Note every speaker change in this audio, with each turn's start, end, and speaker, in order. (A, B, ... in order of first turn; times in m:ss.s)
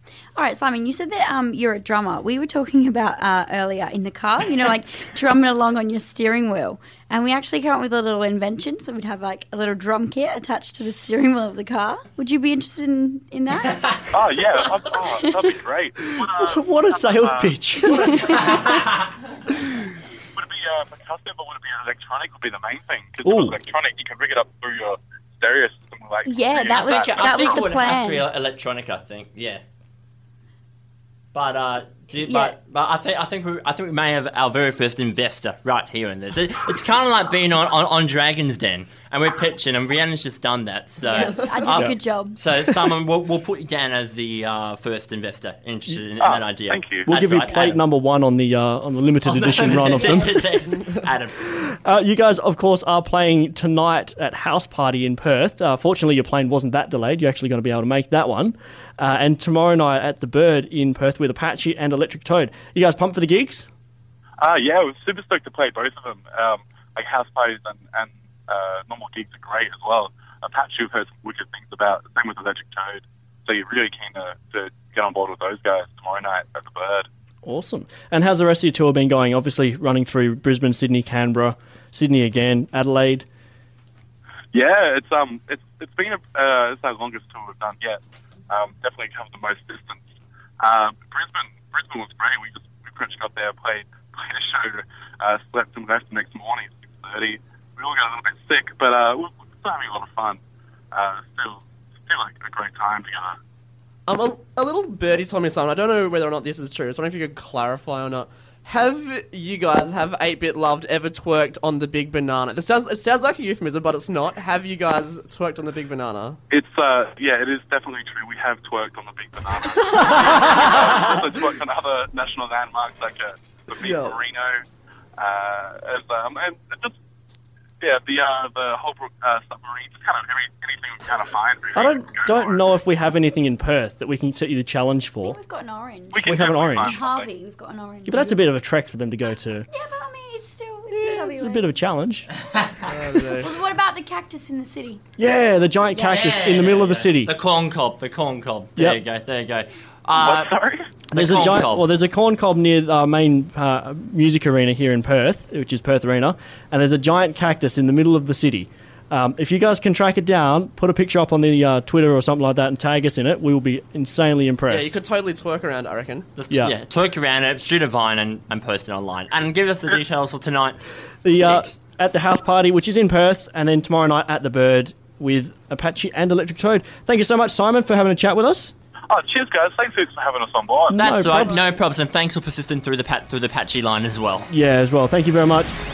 0:00.4-0:15.5 A
0:14.1-0:17.6 B
0:16.3-0:18.6 C
0:17.9-0:18.4 A
0:20.4-0:27.6 B
0:23.2-0:23.6 C
0:26.3-0:28.3 A
0:26.7-0:29.6 D
0:31.3-0:47.8 D
0:32.2-0:32.6 A
0:41.0-0:42.4 A
0:46.2-0:47.0 B
0:47.1-0:50.4 C
0:49.2-0:51.4 D
0:51.4-1:03.7 C
1:04.4-1:17.1 B
1:17.4-1:23.3 C
1:24.5-1:30.0 B
1:30.6-1:40.4 B
1:40.9-1:43.4 B
1:44.1-1:56.4 E
1:56.5-2:04.6 B
2:03.8-2:04.2 E
2:05.2-2:07.0 B
2:07.8-2:12.8 B
2:11.8-2:15.4 C
2:15.2-2:18.4 A
2:16.1-2:17.3 B
2:16.2-2:17.0 C
2:18.1-2:19.7 C
2:19.7-2:21.7 A
2:20.9-2:22.3 C
2:22.9-2:23.5 E
2:23.3-2:25.0 A
2:25.2-2:27.3 C
2:26.0-2:30.5 D
2:30.2-2:30.9 B
2:31.1-2:45.0 C
2:31.1-2:31.8 D
2:44.7-2:46.3 E
2:46.4-2:51.7 D
2:51.2-2:58.7 C
2:59.1-3:01.0 B
3:00.9-3:01.7 C
3:00.9-3:04.5 D
3:04.5-3:05.7 C